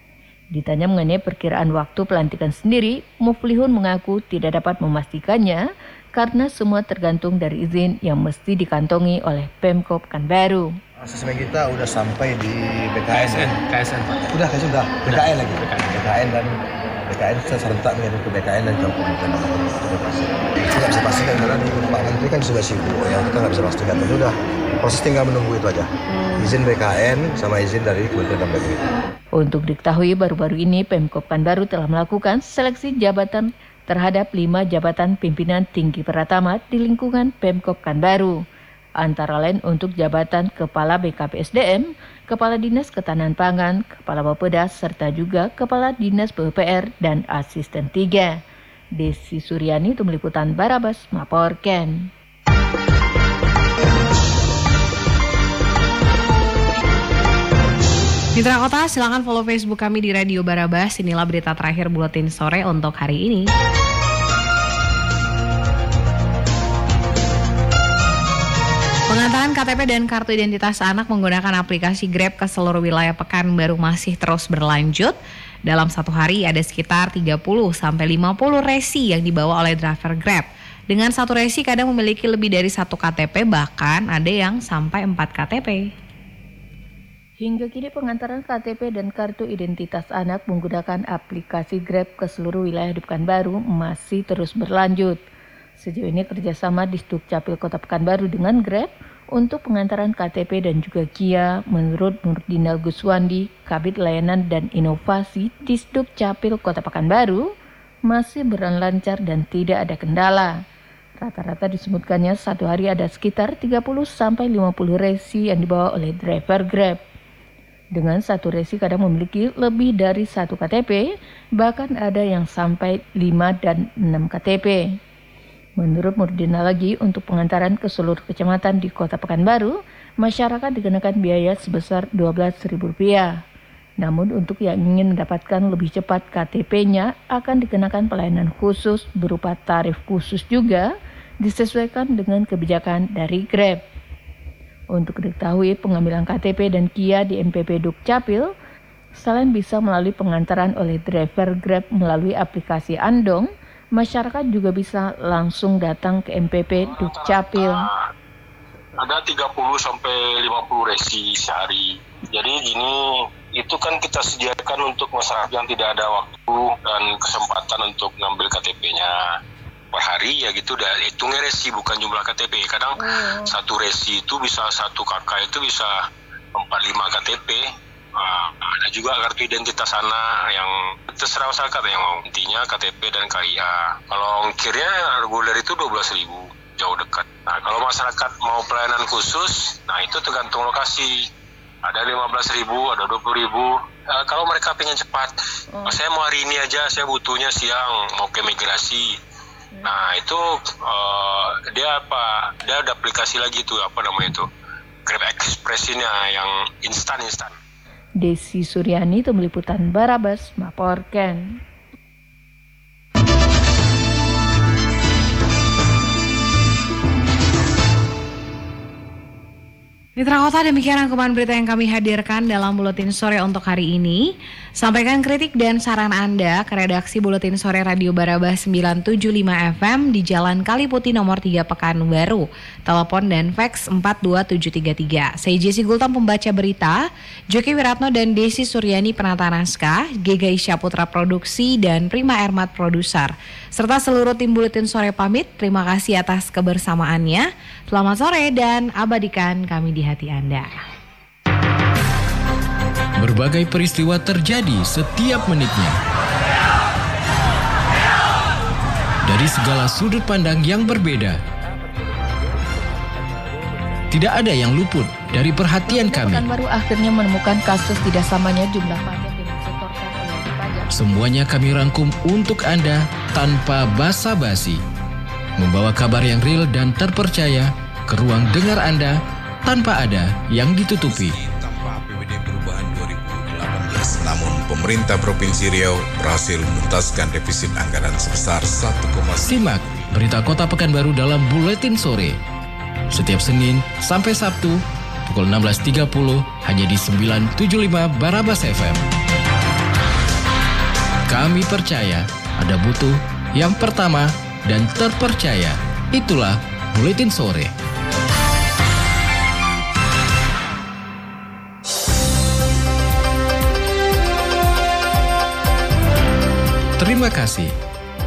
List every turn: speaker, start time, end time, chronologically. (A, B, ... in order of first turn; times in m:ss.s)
0:00.5-0:05.6 A
0:06.2-0:10.7 A
0:11.0-0:13.6 B
0:14.3-0:28.8 B
0:29.4-0:38.4 A
0:39.0-0:48.4 A
0:49.0-0:52.1 A
0:58.4-1:03.5 C
1:09.1-1:25.9 C
1:27.4-1:35.2 A
1:35.8-1:47.4 A
1:48.1-1:50.5 A
1:51.2-1:57.0 A
1:58.0-2:01.1 A
2:01.6-2:04.8 A
2:05.8-2:13.4 A
2:14.0-2:20.9 A
2:21.4-2:23.8 A
2:24.9-2:28.5 A
2:29.2-2:37.9 A
2:36.9-2:38.0 D
2:39.0-2:43.0 D
2:43.6-2:49.1 D
2:49.9-2:55.9 D
2:53.0-2:53.6 A
2:56.6-3:11.1 D
3:11.8-3:15.3 D
3:15.9-3:19.1 D
3:19.8-3:24.4 D
3:25.1-3:27.5 D
3:28.2-3:31.6 A
3:40.2-4:10.8 C
4:13.2-4:16.0 E
4:19.2-4:21.4 E
4:24.1-4:26.4 E
4:25.9-4:30.9 A
4:30.9-4:34.8 E
4:35.6-4:41.4 E
4:41.0-4:50.0 F
4:49.4-4:52.4 E
4:53.1-4:59.0 E
5:01.3-5:07.7 E
5:17.0-5:17.7 E